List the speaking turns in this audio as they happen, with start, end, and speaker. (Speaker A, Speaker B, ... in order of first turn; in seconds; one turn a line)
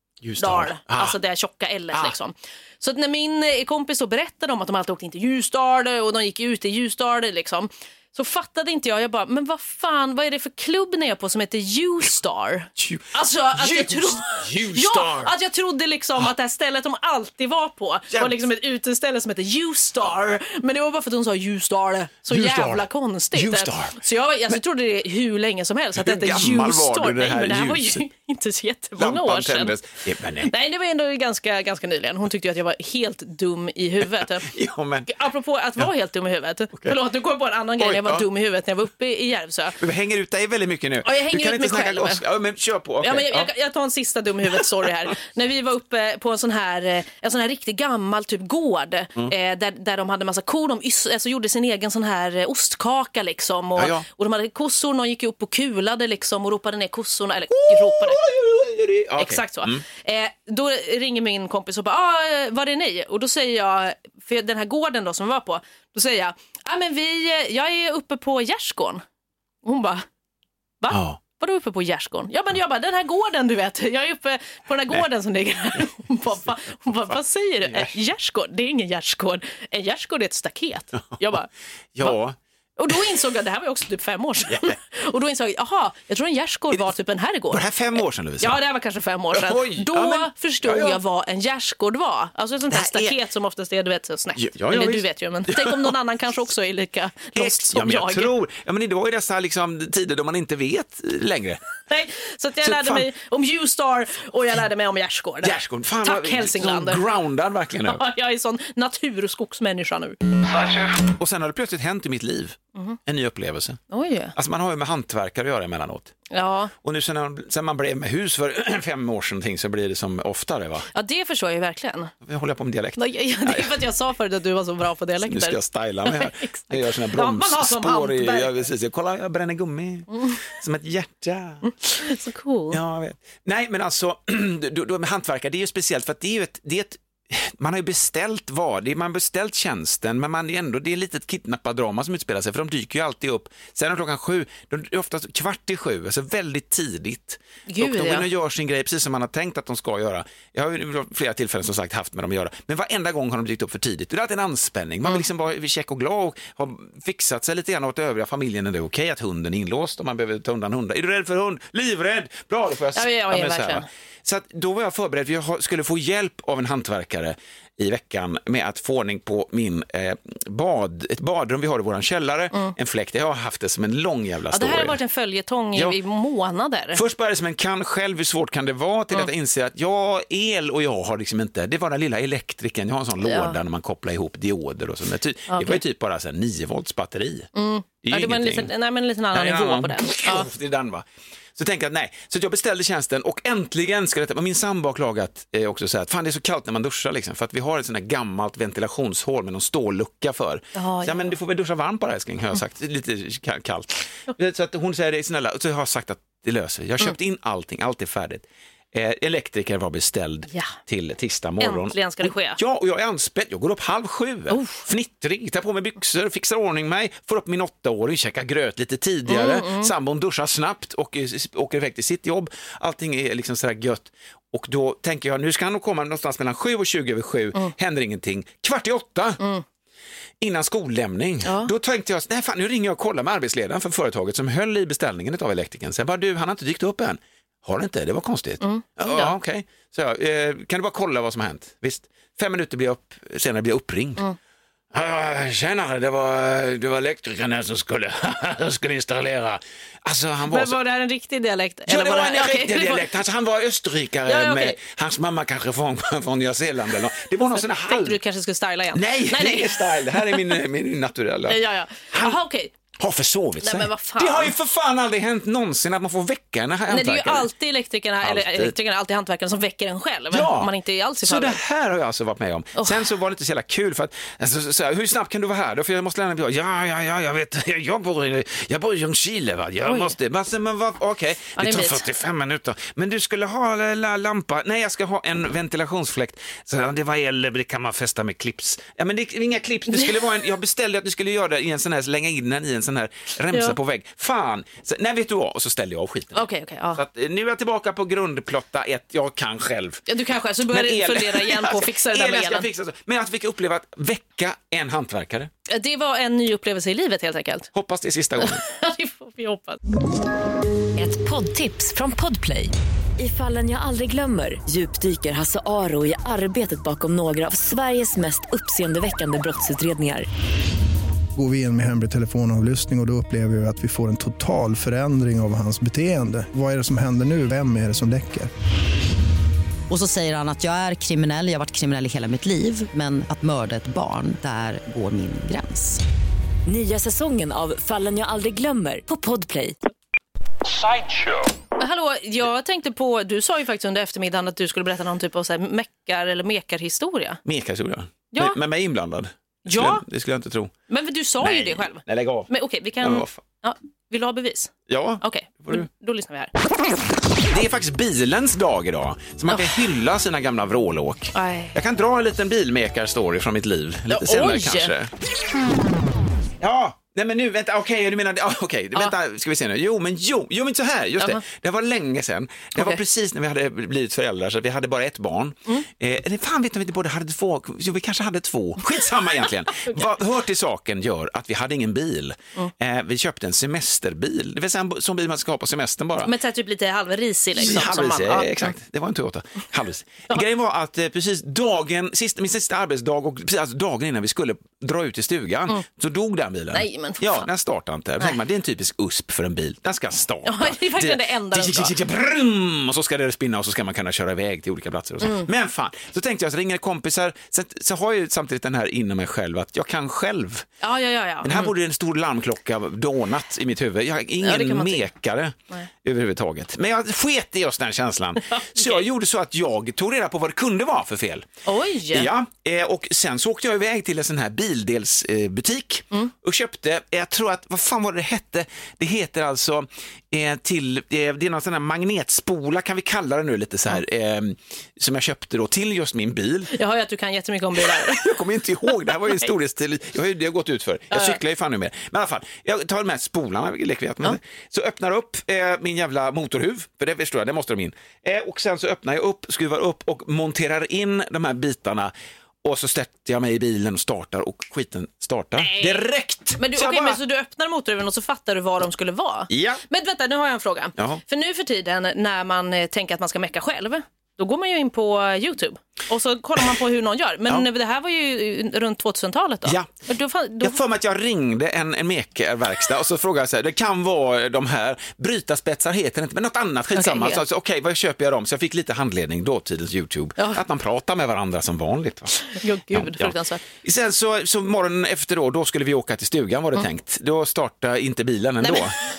Speaker A: 0.2-1.1
Speaker B: 0.4-29.7
Speaker A: 12.8-15.3
Speaker A: 18.1-18.4
Speaker A: 22.3-24.0
Speaker A: 26.0-28.0
Speaker A: 29.0-30.5
Speaker B: 30.4-34.5
Speaker A: 34.2-35.1
Speaker B: 35.1-39.8
Speaker A: 37.8-38.3
Speaker A: 39.8-43.5
Speaker B: 41.0-42.2
Speaker B: 43.0-58.2
Speaker A: 53.8-54.0
Speaker A: 57.5-59.8
Speaker B: 59.2-69.0
Speaker B: 69.6-70.0
Speaker B: 70.8-81.5
Speaker A: 70.9-71.2
Speaker A: 81.9-82.4
Speaker B: 82.8-87.7
Speaker A: 87.5-88.6
Speaker B: 88.4-98.3
Speaker A: 89.3-91.0
Speaker A: 92.7-93.2
Speaker A: 94.3-96.0
Speaker A: 97.3-101.6
Speaker B: 101.9-107.0
Speaker A: 102.6-103.1
Speaker A: 105.4-108.0
Speaker B: 107.8-110.2
Speaker A: 111.0-113.8
Speaker B: 113.9-114.3
Speaker A: 114.3-116.1
Speaker B: 116.3-116.7
Speaker A: 116.8-120.9
Speaker B: 120.9-122.1
Speaker A: 122.2-123.7
Speaker B: 123.0-128.7
Speaker A: 125.2-131.7
Speaker B: 131.6-132.8
Speaker A: 132.7-175.0
Speaker B: 147.7-148.2
Speaker B: 162.9-163.9
Speaker B: 174.5-177.0
Speaker A: 175.7-176.0
Speaker A: 176.9-187.5
Speaker B: 183.2-183.6
Speaker B: 185.5-185.8
Speaker B: 187.5-190.5
Speaker A: 188.0-188.7
Speaker A: 189.3-229.4
Speaker B: 200.8-201.3
Speaker B: 211.6-212.6
Speaker B: 214.5-214.8
Speaker B: 219.3-219.9
Speaker A: 230.4-244.2
Speaker B: 231.4-231.7
Speaker B: 238.6-239.3
Speaker A: 244.9-250.8
Speaker B: 250.5-253.1
Speaker A: 251.9-258.2
Speaker B: 254.2-254.8
Speaker B: 257.6-260.4
Speaker A: 258.9-261.6
Speaker B: 261.5-262.7
Speaker A: 262.1-262.4
Speaker A: 263.0-267.5
Speaker B: 263.6-264.5
Speaker B: 266.9-271.6
Speaker A: 268.2-268.7
Speaker A: 270.3-270.7
Speaker A: 271.2-300.0
Speaker B: 279.9-280.1
Speaker B: 281.6-282.1
Speaker B: 296.3-297.0
Speaker B: 300.1-302.7
Speaker A: 300.7-305.5
Speaker B: 305.7-307.7
Speaker A: 307.7-308.6
Speaker B: 308.4-309.8
Speaker C: 310.9-320.3
Speaker D: 321.3-328.5
Speaker E: 329.9-335.8
Speaker C: 336.6-339.8
Speaker B: 341.8-347.4
Speaker A: 347.4-350.7
Speaker B: 348.3-348.6
Speaker B: 349.7-350.0
Speaker B: 350.9-356.5
Speaker A: 351.4-353.4
Speaker A: 354.9-355.8
Speaker A: 357.5-365.1
Speaker B: 361.3-361.8
Speaker B: 364.1-364.9
Speaker A: 366.6-386.3
Speaker B: 372.8-373.0
Speaker B: 386.2-388.7
Speaker A: 387.5-410.6
Speaker B: 396.7-397.5
Speaker B: 400.4-401.9
Speaker B: 410.8-411.7
Speaker A: 411.4-421.5
Speaker B: 414.4-415.1
Speaker B: 418.6-419.0
Speaker B: 421.6-422.3
Speaker A: 422.1-436.7
Speaker B: 436.7-438.2
Speaker A: 437.8-452.1
Speaker B: 439.0-439.4
Speaker B: 441.1-441.4
Speaker A: 452.6-457.2
Speaker B: 455.6-456.0
Speaker B: 456.6-470.8
Speaker A: 459.5-459.8
Speaker A: 469.6-469.9
Speaker A: 470.6-488.9
Speaker B: 476.9-477.4
Speaker B: 482.3-483.6
Speaker B: 488.6-488.9